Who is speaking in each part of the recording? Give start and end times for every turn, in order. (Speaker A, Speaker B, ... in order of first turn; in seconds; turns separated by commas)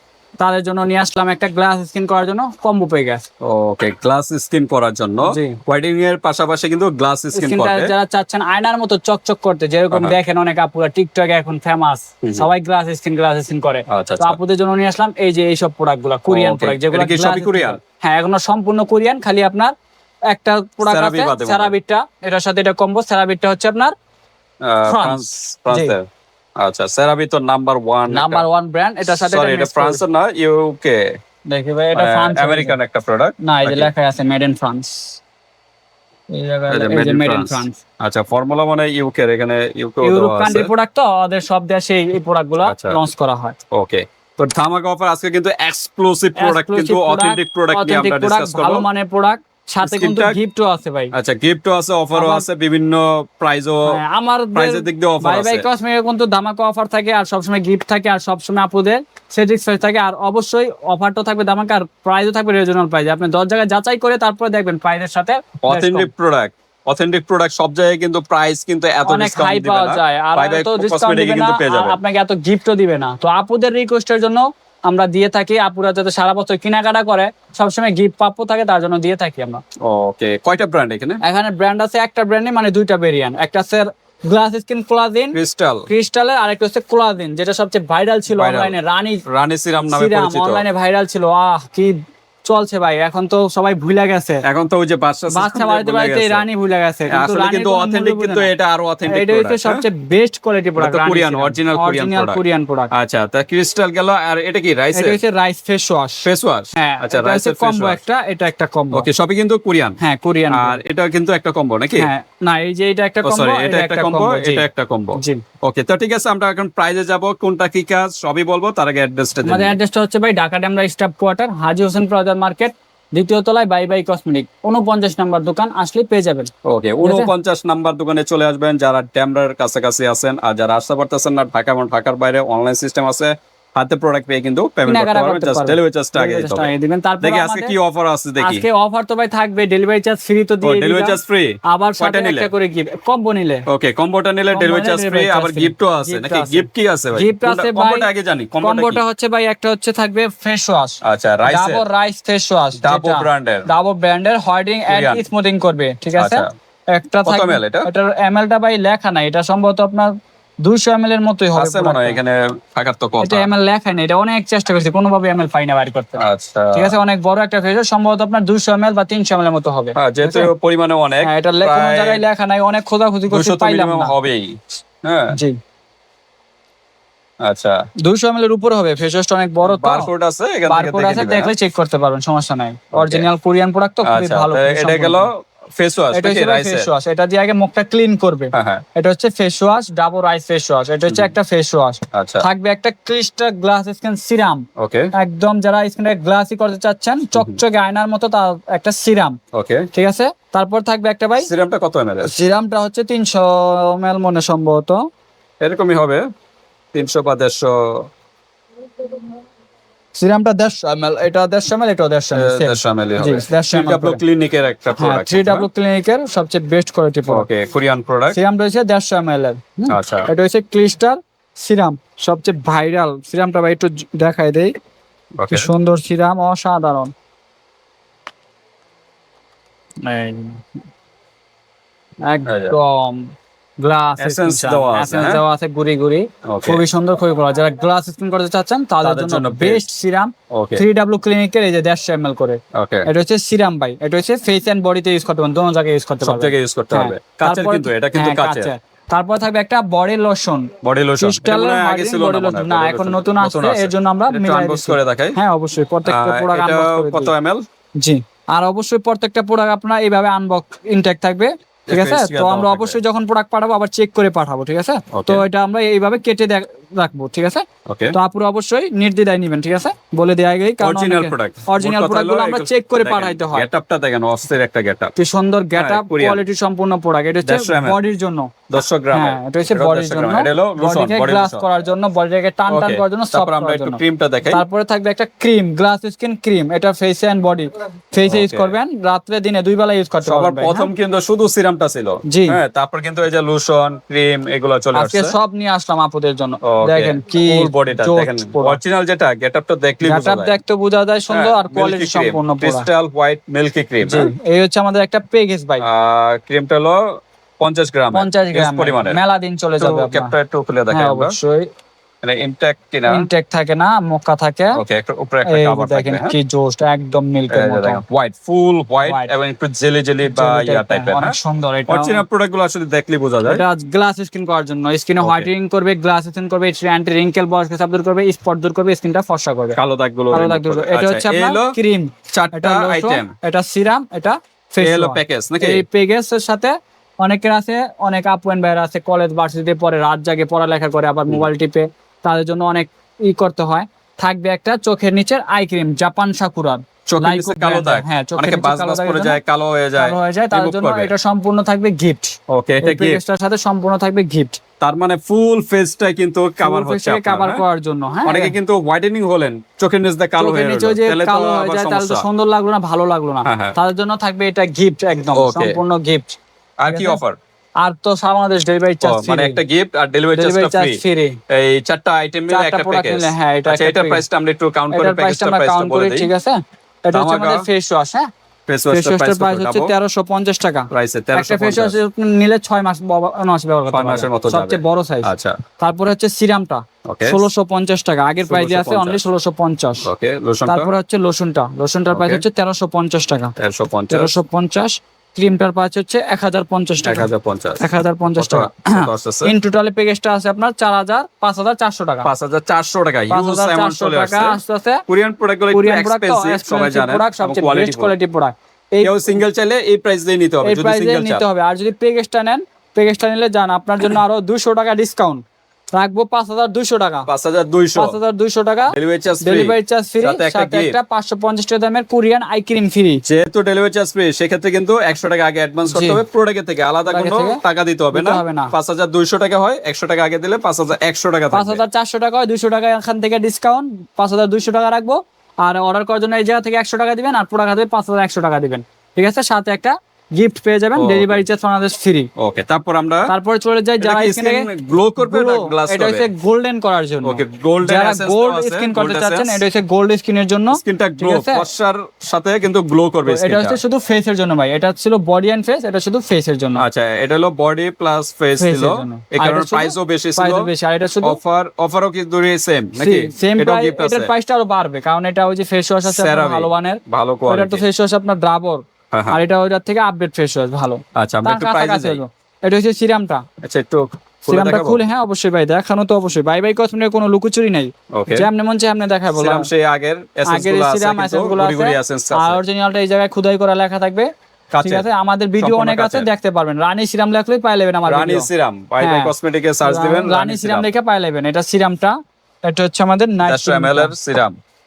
Speaker A: 0.4-3.2, Speaker B: 3.4-7.9, Speaker A: 5.2-5.6, Speaker A: 7.3-19.7, Speaker B: 9.9-10.2, Speaker B: 13.9-14.4, Speaker B: 16.3-17.8, Speaker A: 20.3-23.9, Speaker B: 20.9-21.7, Speaker B: 24.6-26.1, Speaker A: 24.9-25.9, Speaker B: 26.6-28.4, Speaker A: 28.1-30.0, Speaker B: 29.1-31.1, Speaker A: 31.5-32.8, Speaker B: 32.0-33.9, Speaker A: 33.4-35.2, Speaker A: 36.3-37.8, Speaker B: 36.7-40.7, Speaker A: 40.0-43.6, Speaker B: 42.6-43.0, Speaker B: 43.7-48.9, Speaker A: 46.4-51.1, Speaker B: 49.8-50.4, Speaker B: 51.1-54.0, Speaker A: 52.1-52.5, Speaker A: 53.9-66.1, Speaker B: 54.5-55.7, Speaker B: 65.6-72.0, Speaker A: 69.1-79.6, Speaker B: 79.8-81.2, Speaker A: 81.2-89.2, Speaker B: 85.3-85.9, Speaker B: 88.3-90.7, Speaker A: 89.8-91.9, Speaker A: 92.5-94.4, Speaker B: 94.5-96.5, Speaker A: 95.3-98.5, Speaker B: 97.1-99.9, Speaker A: 99.1-102.9, Speaker B: 100.8-102.4, Speaker B: 102.9-105.2, Speaker A: 104.9-109.1, Speaker B: 106.2-108.0, Speaker B: 108.9-110.0, Speaker A: 110.0-110.8, Speaker B: 110.5-112.1, Speaker A: 112.0-115.4, Speaker B: 113.2-119.8, Speaker A: 119.4-126.5, Speaker B: 126.7-136.7, Speaker A: 127.0-127.3, Speaker A: 134.9-137.8, Speaker B: 137.2-138.7, Speaker A: 138.4-143.7, Speaker B: 140.6-142.5, Speaker B: 143.7-149.0, Speaker A: 144.5-148.1, Speaker A: 148.6-162.2, Speaker B: 151.0-151.8, Speaker B: 152.8-153.7, Speaker B: 154.9-155.2, Speaker B: 156.2-156.5, Speaker B: 157.2-157.9, Speaker B: 161.6-163.5, Speaker A: 163.2-170.5, Speaker B: 166.2-166.9, Speaker B: 170.0-172.2, Speaker A: 171.2-174.2, Speaker B: 173.3-175.4, Speaker B: 177.4-177.8, Speaker A: 178.0-180.1, Speaker B: 179.6-181.5, Speaker A: 180.7-185.3, Speaker B: 182.9-183.3, Speaker B: 184.0-186.9, Speaker A: 186.1-199.4, Speaker B: 188.5-188.8, Speaker B: 192.1-192.4, Speaker B: 194.8-195.1, Speaker B: 199.5-199.9, Speaker A: 199.9-201.5, Speaker B: 201.4-202.3, Speaker A: 202.2-205.1, Speaker B: 205.6-206.2, Speaker B: 206.9-208.1, Speaker A: 210.2-214.2, Speaker B: 212.3-215.7, Speaker A: 215.0-217.5, Speaker B: 217.3-218.4, Speaker A: 218.3-224.7, Speaker B: 219.9-220.3, Speaker B: 225.4-225.7, Speaker A: 225.5-227.1, Speaker A: 230.0-230.6, Speaker A: 232.3-257.3, Speaker B: 232.5-232.8, Speaker B: 234.2-235.4, Speaker B: 236.5-236.8, Speaker B: 239.0-239.9, Speaker B: 240.5-240.8, Speaker B: 242.8-243.1, Speaker B: 246.2-248.7, Speaker B: 250.8-255.4, Speaker B: 256.1-257.6, Speaker A: 258.0-273.7, Speaker B: 261.9-263.0, Speaker B: 265.1-265.5, Speaker B: 267.9-268.1, Speaker B: 270.8-275.1, Speaker A: 275.2-278.5, Speaker B: 275.8-276.4, Speaker B: 277.4-278.0, Speaker B: 278.7-281.7, Speaker A: 279.1-290.9, Speaker B: 282.7-284.6, Speaker B: 288.2-288.8, Speaker B: 290.2-295.4, Speaker A: 292.3-292.6, Speaker A: 294.9-298.8, Speaker B: 296.6-300.6, Speaker A: 300.0-302.9, Speaker B: 301.3-304.3, Speaker A: 304.0-305.9, Speaker B: 305.8-307.0, Speaker B: 307.6-309.2, Speaker A: 308.1-310.3, Speaker B: 309.8-311.4, Speaker A: 310.9-311.7, Speaker B: 312.2-313.3, Speaker A: 313.1-314.8, Speaker B: 314.8-316.4, Speaker A: 315.5-318.0, Speaker B: 317.5-321.4, Speaker A: 319.1-319.3, Speaker A: 320.3-322.2, Speaker B: 321.9-323.6, Speaker A: 323.4-329.8, Speaker B: 325.2-325.5, Speaker B: 329.8-331.8, Speaker A: 330.3-349.4, Speaker B: 332.3-333.3, Speaker B: 334.8-335.9, Speaker B: 347.1-351.1, Speaker A: 350.0-354.6, Speaker B: 352.5-353.2, Speaker B: 354.8-357.6, Speaker A: 356.6-358.6, Speaker B: 358.2-362.3, Speaker A: 360.4-366.4, Speaker B: 363.4-363.8, Speaker B: 365.3-365.8, Speaker B: 366.8-367.4, Speaker A: 366.9-367.2, Speaker A: 367.8-369.6, Speaker B: 369.0-376.3, Speaker A: 370.4-371.4, Speaker A: 372.5-374.2, Speaker A: 374.9-378.3, Speaker B: 377.1-377.7, Speaker B: 378.7-379.9, Speaker A: 378.9-390.1, Speaker B: 380.9-382.0, Speaker B: 383.9-385.6, Speaker B: 387.1-387.5, Speaker B: 388.4-389.2, Speaker B: 390.0-390.9, Speaker A: 390.7-393.5, Speaker B: 392.1-392.4, Speaker B: 393.6-394.4, Speaker A: 394.1-397.3, Speaker B: 397.0-399.6, Speaker A: 397.8-402.3, Speaker B: 402.2-408.1, Speaker A: 403.3-405.0, Speaker A: 405.7-409.4, Speaker B: 409.0-411.4, Speaker A: 410.6-415.4, Speaker A: 415.9-417.3, Speaker B: 417.3-418.2, Speaker A: 418.0-423.2, Speaker B: 418.9-421.0, Speaker B: 423.3-431.8, Speaker A: 425.9-426.2, Speaker A: 427.1-427.6, Speaker A: 428.1-428.7, Speaker A: 431.5-442.3, Speaker B: 441.0-441.4, Speaker B: 442.4-443.3, Speaker A: 443.3-451.7, Speaker B: 444.0-446.3, Speaker B: 447.2-449.6, Speaker B: 450.7-453.8, Speaker A: 453.3-456.8, Speaker B: 456.8-460.7, Speaker A: 458.6-461.4, Speaker B: 461.2-464.3, Speaker A: 463.0-473.4, Speaker B: 466.1-467.8, Speaker B: 469.1-469.4, Speaker B: 471.2-472.2, Speaker B: 473.6-475.0, Speaker A: 474.5-479.7, Speaker B: 478.1-478.5, Speaker B: 479.3-482.6, Speaker A: 480.5-484.3, Speaker B: 484.7-485.1, Speaker A: 484.8-488.5, Speaker B: 485.6-486.3, Speaker B: 488.1-490.9, Speaker A: 489.0-489.3, Speaker A: 489.8-494.1, Speaker B: 493.4-494.6